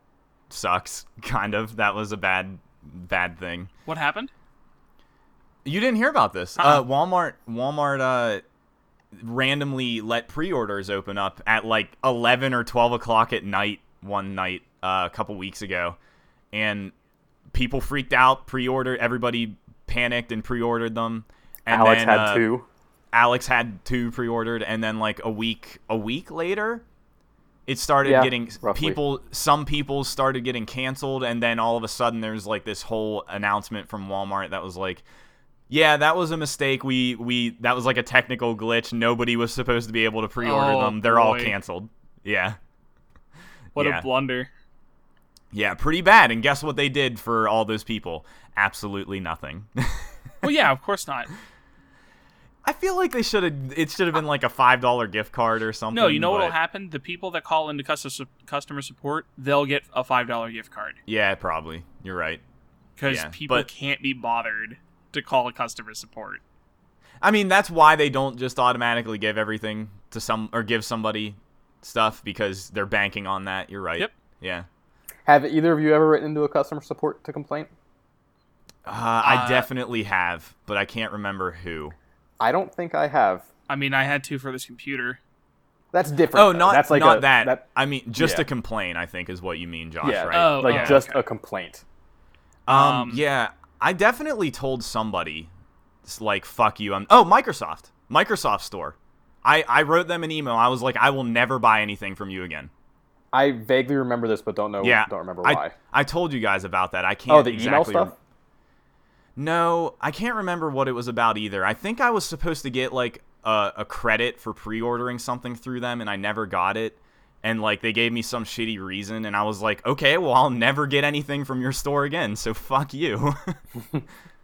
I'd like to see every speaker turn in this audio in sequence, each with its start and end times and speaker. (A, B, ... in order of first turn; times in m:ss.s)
0:00.5-0:03.7 A
0:03.9-0:04.3 B
0:05.6-0:08.4 A
0:06.6-0:06.8 B
0:09.2-0:16.0 A
0:16.5-0:16.9 A
0:17.5-0:22.5 A
0:21.7-0:22.7 C
0:23.1-0:26.8 A
0:27.7-0:35.0 A
0:28.0-0:29.0 C
0:35.7-0:42.6 A
0:40.4-0:41.6 B
0:43.8-0:44.1 A
0:43.8-0:44.5 B
0:45.5-0:50.1 A
0:50.4-0:51.3 B
0:52.6-0:56.6 A
0:55.9-1:01.0 B
1:01.1-1:02.4 A
1:03.0-1:06.4 B
1:03.1-1:03.7 A
1:07.2-1:14.7 A
1:15.3-1:17.7 C
1:18.9-1:22.0 A
1:19.2-1:19.7 B
1:22.4-1:23.5 C
1:23.7-1:25.2 B
1:25.9-1:27.6 C
1:26.3-1:31.0 A
1:28.2-1:28.5 C
1:30.0-1:31.8 C
1:30.3-1:31.2 B
1:32.7-1:35.5 A
1:32.7-1:33.2 B
1:36.0-1:42.7 A
1:43.3-1:45.8 C
1:44.8-1:48.1 A
1:47.3-1:48.1 C
1:49.4-2:03.6 A